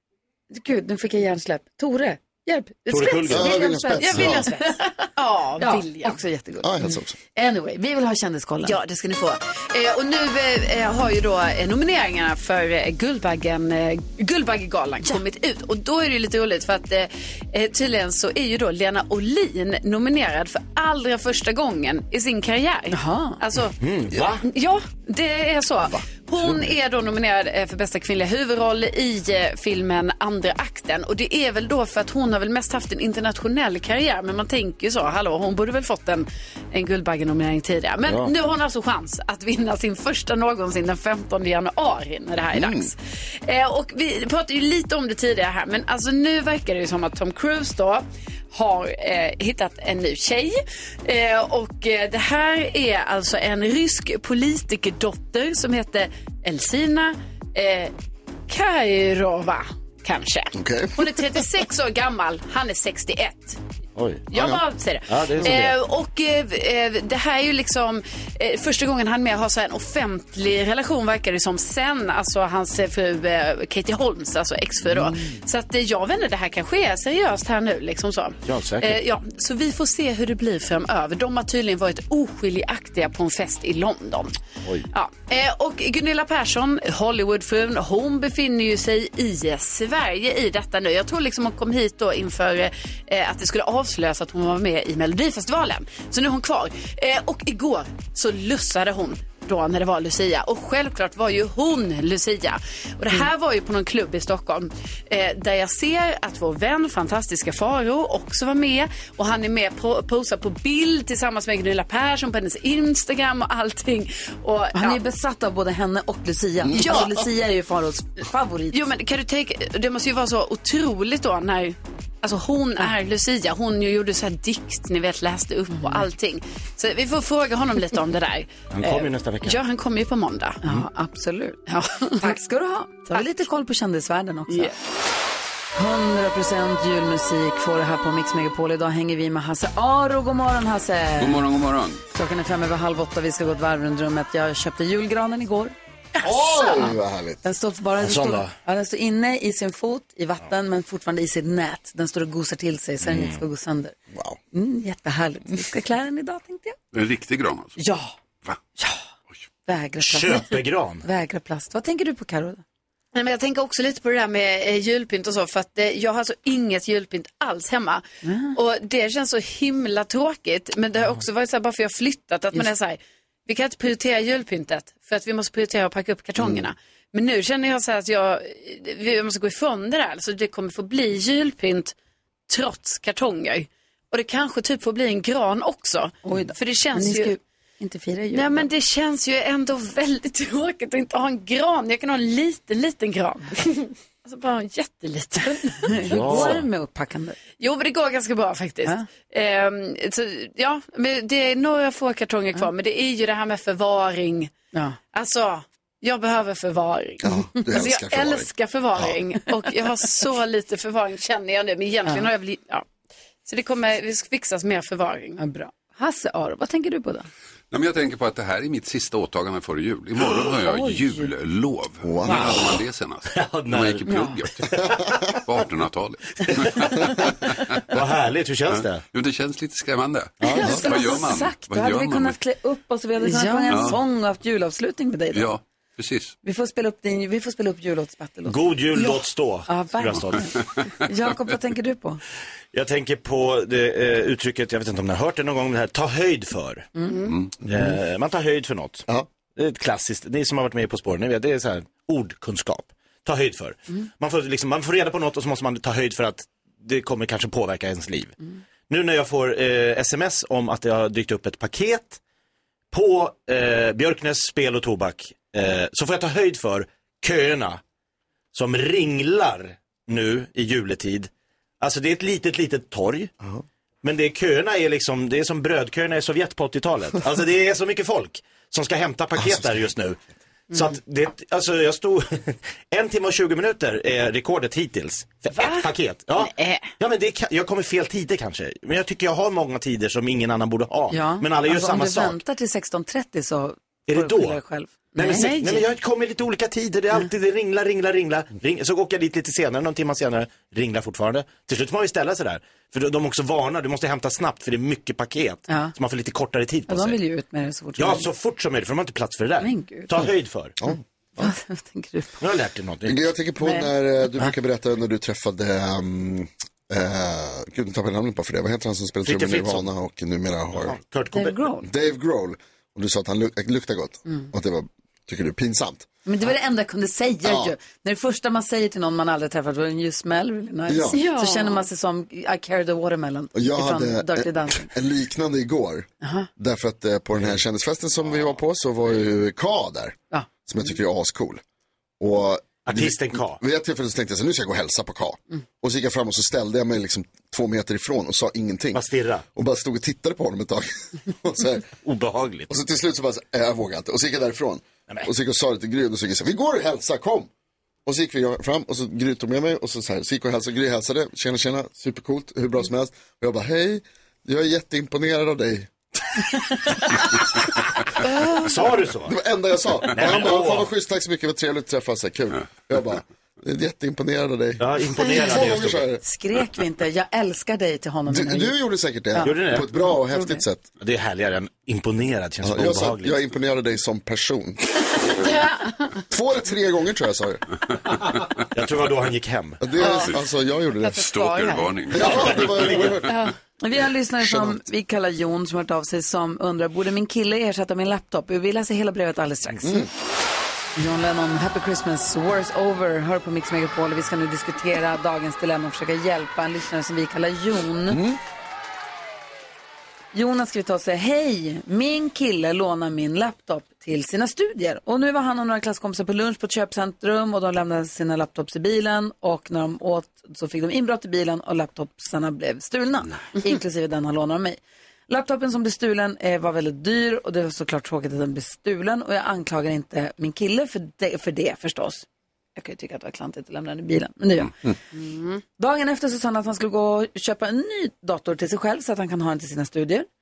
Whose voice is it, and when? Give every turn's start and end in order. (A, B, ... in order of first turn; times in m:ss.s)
0:00.5-0:05.0 A
0:02.9-0:03.6 B
0:03.3-0:04.5 C
0:03.8-0:06.2 D
0:05.6-0:08.8 A
0:06.6-0:07.1 C
0:08.6-0:23.8 D
0:22.9-0:23.4 A
0:23.8-0:24.4 B
0:24.4-0:57.9 D
0:26.4-0:26.7 B
0:38.0-0:38.3 B
0:42.5-0:42.9 C
0:58.5-1:03.6 D
1:00.5-1:01.2 C
1:04.0-1:04.2 B
1:04.3-1:24.4 D
1:04.3-1:04.6 C
1:05.1-1:05.8 B
1:14.8-1:15.4 B
1:18.4-1:19.0 B
1:24.9-1:55.0 D
1:54.7-1:58.8 A
1:56.6-1:57.0 C
1:56.7-1:57.2 D
1:58.7-2:10.6 D
2:05.7-2:06.1 A
2:08.7-2:09.6 B
2:10.6-2:14.8 A
2:11.7-2:12.4 D
2:14.5-2:14.8 D
2:15.7-2:21.5 A
2:21.2-2:22.0 E
2:22.1-2:25.7 A
2:26.2-2:27.4 C
2:26.3-2:26.9 D
2:27.4-2:33.9 A
2:28.0-2:28.5 B
2:33.0-2:33.4 B
2:34.1-2:34.4 C
2:34.5-2:36.8 A
2:36.9-2:37.8 E
2:37.8-2:38.1 A
2:38.8-2:39.0 A
2:39.7-2:42.6 A
2:40.0-2:41.0 B
2:43.1-3:01.9 D
2:48.2-2:48.5 A
3:02.5-3:07.4 D
3:06.2-3:08.7 A
3:08.3-3:16.4 D
3:15.8-3:17.4 A
3:16.0-3:16.6 B
3:17.6-3:24.5 D
3:24.7-3:25.0 A
3:25.1-3:32.8 D
3:27.2-3:29.2 C
3:33.4-3:35.4 D
3:35.4-3:37.3 A
3:37.7-3:47.8 E
3:40.6-3:41.3 A
3:42.0-3:42.7 C
3:42.2-3:42.8 B
3:43.3-3:44.2 B
3:44.0-3:44.4 A
3:44.7-3:45.0 B
3:46.4-3:46.7 B
3:47.8-3:49.0 B
3:48.7-3:52.4 E
3:50.4-3:50.8 B
3:50.4-3:55.5 A
3:53.2-3:54.0 D
3:53.7-3:54.0 E
3:55.3-3:56.3 E
3:56.4-4:02.2 A
3:58.4-4:00.5 B
4:00.2-4:01.3 E
4:02.7-4:06.9 B
4:07.0-4:07.4 D
4:07.6-4:22.2 B
4:22.9-4:27.8 B
4:28.5-4:33.3 B
4:34.0-4:40.2 B
4:39.4-4:39.6 C
4:40.7-4:52.4 B
4:45.6-4:45.8 D
4:46.4-4:46.9 D
4:51.1-4:55.5 A
4:54.1-4:54.6 B
4:55.2-5:07.2 B
4:55.2-4:55.8 D
5:05.7-5:05.9 A
5:06.9-5:08.3 A
5:08.0-5:10.8 B
5:09.6-5:10.1 A
5:10.8-5:11.5 C
5:11.4-5:12.4 A
5:12.4-5:13.3 B
5:13.0-5:21.0 C
5:13.6-5:13.9 A
5:19.2-5:19.9 B
5:20.7-5:21.8 B
5:21.3-5:21.8 A
5:21.8-5:26.1 C
5:26.2-5:34.9 A
5:27.4-5:27.7 C
5:30.9-5:31.2 C
5:31.1-5:31.8 D
5:33.5-5:41.6 C
5:36.2-5:36.5 A
5:42.2-5:51.9 C
5:42.8-5:43.6 B
5:48.9-5:49.4 B
5:52.0-5:52.7 B
5:52.7-5:57.5 C
5:58.0-6:05.9 C
6:08.6-6:09.4 B
6:09.3-6:16.2 C
6:10.1-6:10.9 B
6:14.8-6:16.1 B
6:15.2-6:15.7 A
6:16.2-6:18.7 A
6:18.3-6:20.9 C
6:19.3-6:20.6 A
6:19.4-6:19.9 B
6:21.0-6:23.4 B
6:22.6-6:24.8 C
6:26.3-6:27.6 C
6:28.7-6:29.9 B
6:29.8-6:31.2 C
6:30.0-6:30.4 D
6:31.0-6:32.1 D
6:31.1-6:33.4 E
6:32.1-6:33.4 C
6:32.1-6:33.2 B
6:33.8-6:40.0 A
6:34.4-6:34.8 C
6:39.8-6:40.1 C
6:40.9-6:48.2 A
6:48.1-6:48.4 C
6:50.3-7:14.7 A
7:15.1-7:15.6 D
7:15.8-7:20.3 A